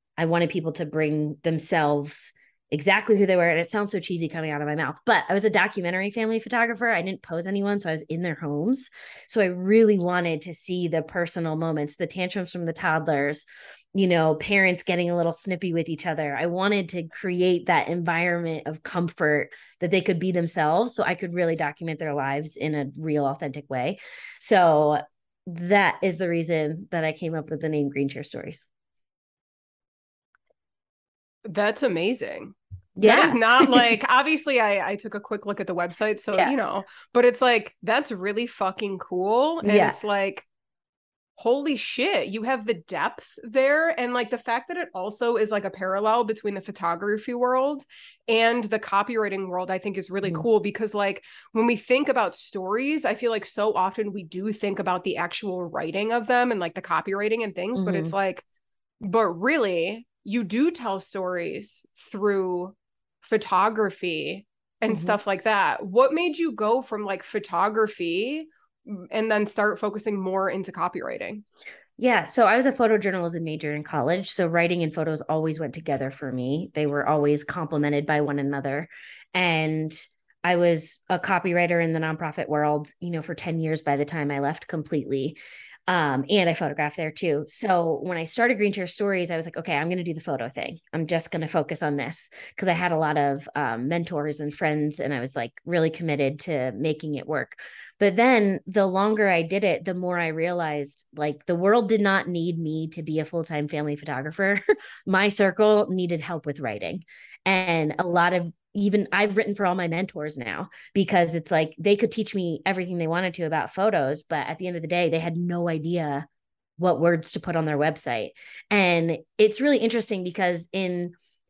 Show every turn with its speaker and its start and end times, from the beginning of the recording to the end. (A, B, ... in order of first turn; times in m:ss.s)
0:00.2-0:28.7 A
0:31.4-0:40.5 B
0:33.0-0:34.0 A
0:39.6-0:40.0 A
0:41.4-0:58.4 B
0:57.8-0:58.1 A
0:59.0-1:11.4 B
1:04.9-1:05.2 A
1:12.0-1:56.3 A
1:56.8-2:01.1 A